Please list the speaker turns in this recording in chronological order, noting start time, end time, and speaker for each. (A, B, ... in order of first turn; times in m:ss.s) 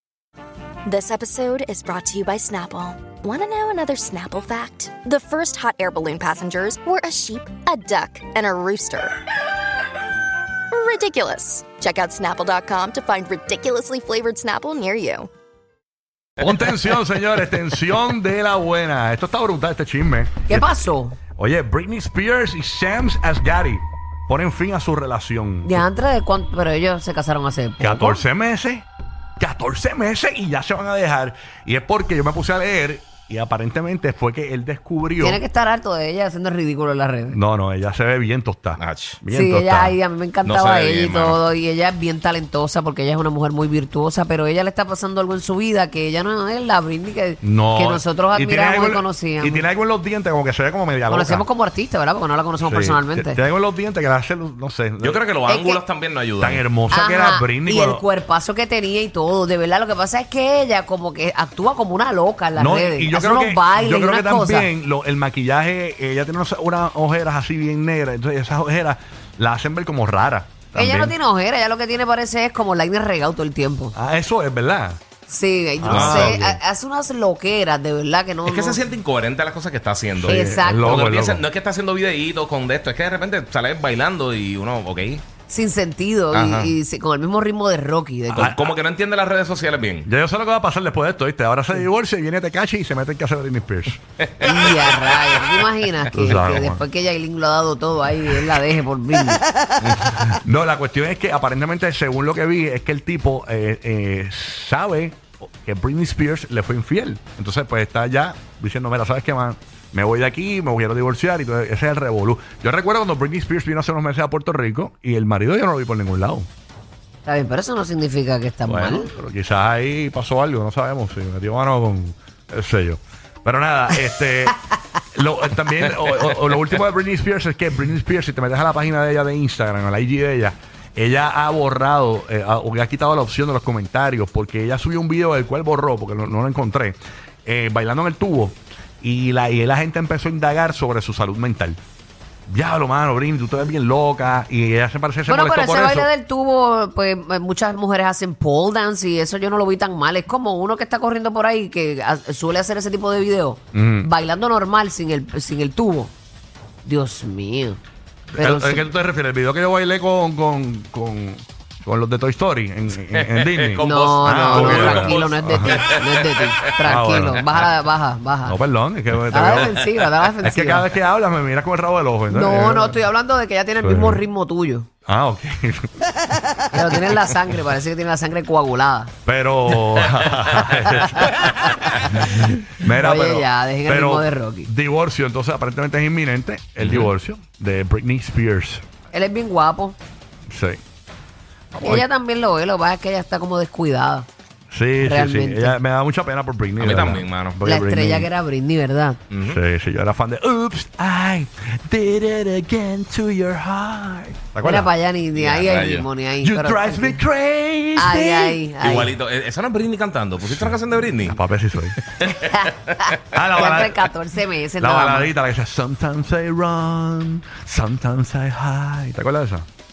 0:00.9-0:09.2 A
0:10.7-0:15.3 A
0:16.4-0:20.7 B
0:20.5-0:21.2 C
0:21.4-0:25.8 B
0:25.6-0:28.2 C
0:27.8-0:28.9 B
0:29.4-0:35.4 B
0:35.2-0:37.4 C
0:37.3-0:40.0 B
0:38.8-0:39.2 D
0:39.3-0:49.6 C
0:40.4-0:41.4 D
0:47.4-0:51.5 B
0:51.1-0:53.4 C
0:52.6-0:55.2 B
0:55.0-0:56.6 D
0:55.4-0:55.8 C
0:56.4-0:58.0 B
0:56.9-1:04.7 C
1:02.6-1:11.2 B
1:10.8-1:14.0 C
1:14.0-1:15.0 B
1:15.3-1:18.9 C
1:15.8-1:16.6 B
1:15.9-1:16.5 D
1:18.4-1:25.2 D
1:20.2-1:21.4 B
1:20.3-1:21.0 C
1:25.5-1:28.6 C
1:26.3-1:26.8 D
1:28.3-1:28.7 B
1:28.4-1:30.1 D
1:30.0-1:34.0 B
1:34.4-1:35.2 D
1:34.4-1:39.5 C
1:36.1-1:36.8 B
1:40.0-1:56.5 B
1:57.3-1:59.1 C
1:58.7-2:04.6 B
2:05.1-2:21.8 B
2:22.5-2:26.1 B
2:25.3-2:36.1 C
2:33.7-2:34.1 B
2:36.8-2:37.8 C
2:38.3-2:45.8 B
2:38.4-2:38.9 C
2:43.1-2:46.4 D
2:43.8-2:48.6 C
2:46.8-2:47.7 B
2:48.4-2:49.8 B
2:49.3-2:50.8 C
2:50.4-2:53.0 B
2:52.3-2:54.9 C
2:53.8-2:54.2 B
2:55.1-2:56.8 B
2:56.7-2:59.1 C
2:59.3-3:08.8 B
3:00.8-3:04.7 C
3:06.8-3:07.1 D
3:09.1-3:10.0 C
3:10.5-3:10.8 B
3:11.7-3:12.1 B
3:11.8-3:14.3 C
3:14.7-3:18.3 B
3:15.0-3:15.8 C
3:16.8-3:17.6 D
3:17.6-3:19.2 C
3:19.3-3:19.6 D
3:19.4-3:24.9 B
3:24.6-3:27.2 C
3:25.3-3:26.1 D
3:26.4-3:28.6 B
3:28.0-3:29.2 C
3:28.8-3:31.4 D
3:30.5-3:32.0 B
3:32.0-3:32.8 D
3:32.3-3:35.3 C
3:33.3-3:34.1 B
3:34.8-3:39.7 B